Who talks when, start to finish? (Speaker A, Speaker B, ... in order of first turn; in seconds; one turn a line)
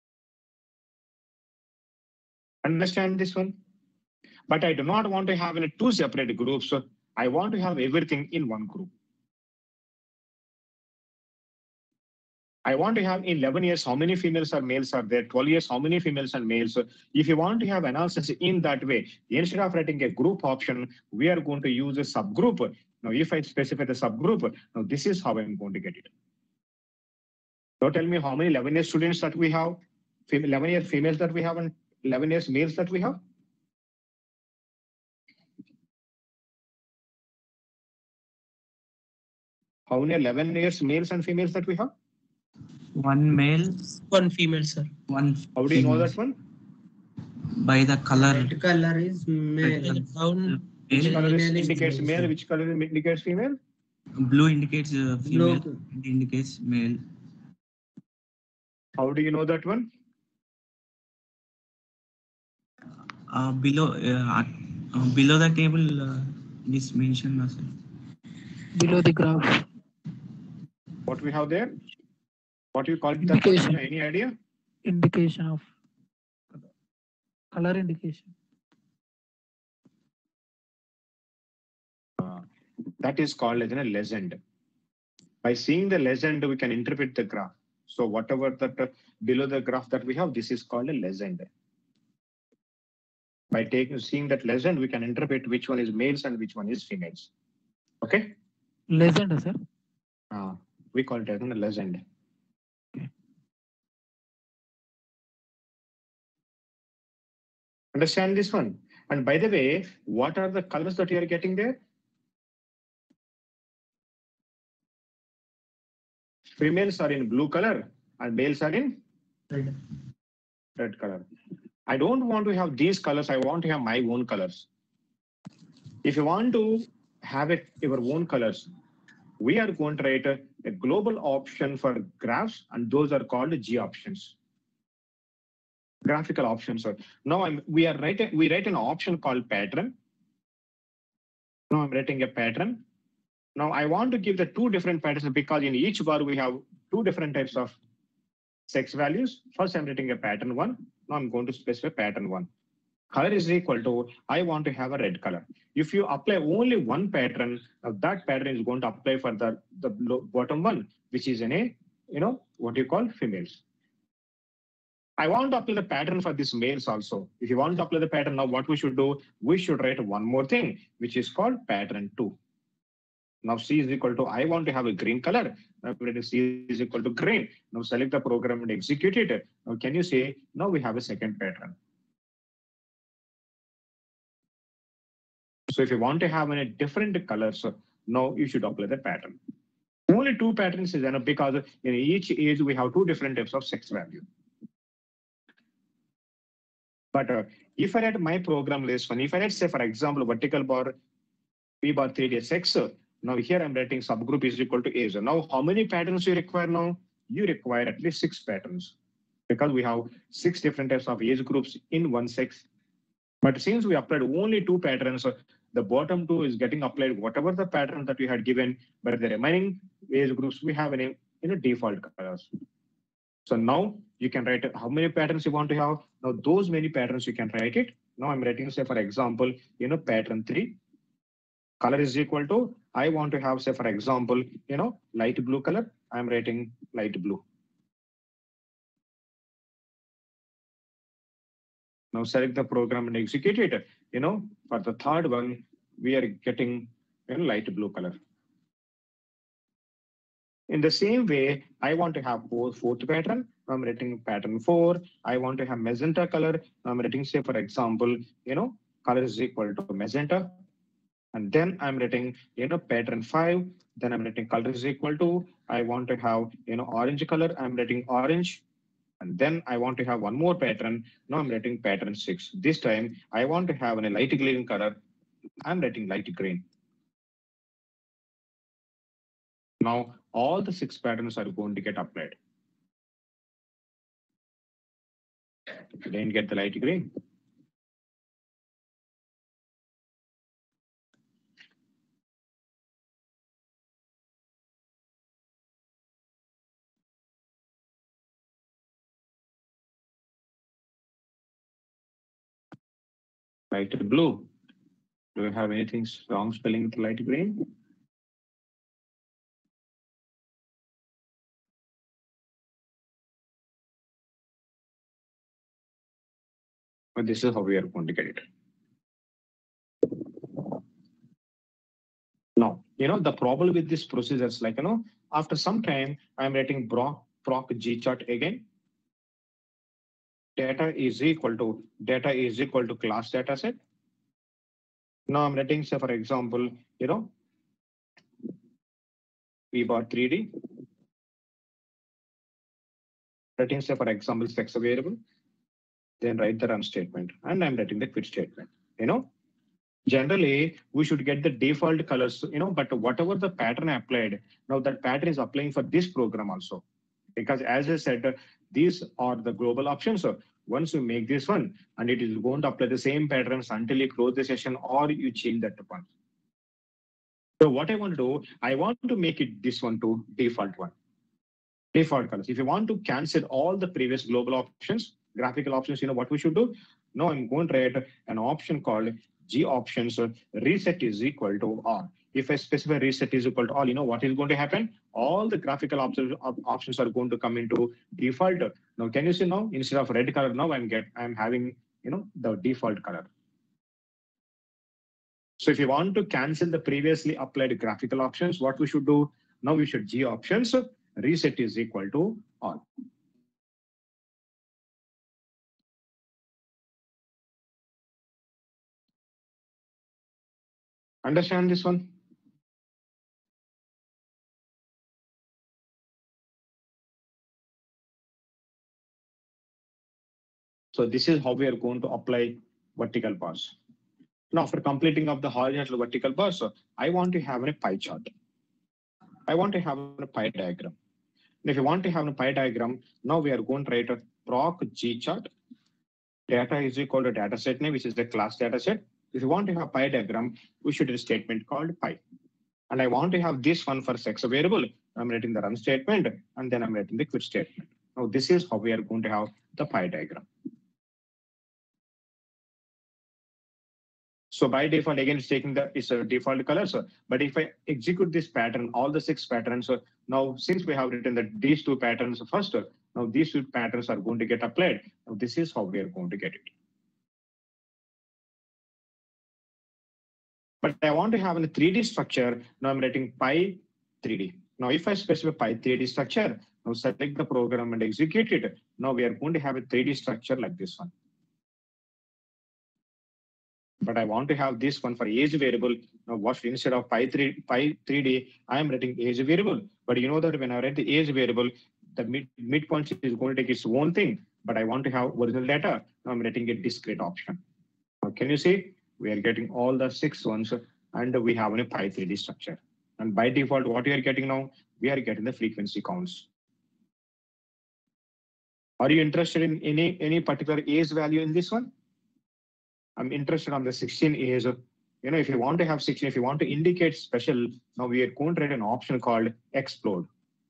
Speaker A: 2.6-3.6
Speaker A: 4.5-8.9
Speaker A: 12.7-26.1
Speaker A: 27.8-33.2
Speaker A: 39.9-41.9
Speaker B: 43.0-43.9
Speaker C: 44.1-44.9
Speaker B: 45.1-46.2
Speaker A: 45.5-46.4
Speaker B: 47.5-48.5
Speaker C: 48.1-52.3
Speaker B: 49.6-52.2
Speaker A: 51.0-53.6
Speaker B: 54.2-57.0
Speaker C: 55.3-55.7
Speaker A: 59.0-59.9
Speaker B: 63.3-67.7
Speaker D: 68.8-69.7
Speaker A: 71.1-71.7
Speaker A: 72.7-74.3
Speaker D: 73.2-73.8
Speaker D: 74.9-75.7
Speaker D: 77.5-78.3
Speaker A: 83.0-84.4
Speaker A: 85.4-91.5
Speaker A: 93.5-97.3
Speaker A: 98.0-98.3
Speaker D: 98.9-99.6
Speaker A: 100.3-102.0
Speaker A: 107.9-111.8
Speaker A: 116.6-119.0
Speaker A: 120.8-121.2
Speaker A: 121.9-124.7
Speaker A: 126.0-128.7
Speaker A: 129.4-134.3
Speaker A: 136.1-139.9
Speaker A: 141.7-142.8
Speaker A: 143.6-147.8
Speaker A: 148.7-152.5
Speaker A: 153.1-163.6
Speaker A: 165.2-172.3
Speaker A: 173.4-181.8
Speaker A: 185.7-189.4
Speaker A: 190.1-194.2
Speaker A: 197.1-200.9
Speaker A: 201.8-208.9
Speaker A: 209.5-212.6
Speaker A: 213.4-222.5
Speaker A: 223.5-230.8
Speaker A: 231.8-237.4
Speaker A: 242.1-248.2
Speaker A: 250.7-260.5
Speaker A: 261.3-268.6
Speaker A: 269.2-275.0
Speaker A: 275.6-276.6
Speaker A: 279.8-282.4
Speaker A: 286.0-287.1
Speaker A: 303.7-304.5
Speaker A: 305.4-307.7
Speaker A: 317.2-318.4
Speaker A: 322.6-328.6
Speaker A: 330.6-333.8
Speaker A: 335.3-337.3
Speaker A: 339.7-340.6
Speaker A: 343.6-345.2
Speaker A: 346.2-349.3
Speaker A: 350.1-356.8
Speaker A: 357.4-366.1
Speaker A: 367.6-370.9
Speaker A: 371.9-393.3
Speaker A: 395.6-402.9
Speaker A: 411.2-412.1
Speaker A: 420.9-423.8
Speaker A: 424.5-428.3
Speaker A: 429.5-430.9
Speaker A: 431.6-435.5
Speaker A: 436.5-442.2
Speaker A: 442.9-450.5
Speaker A: 454.5-466.7
Speaker A: 470.8-481.1
Speaker A: 484.0-497.6
Speaker A: 498.2-506.5
Speaker A: 509.0-511.9
Speaker A: 513.2-520.3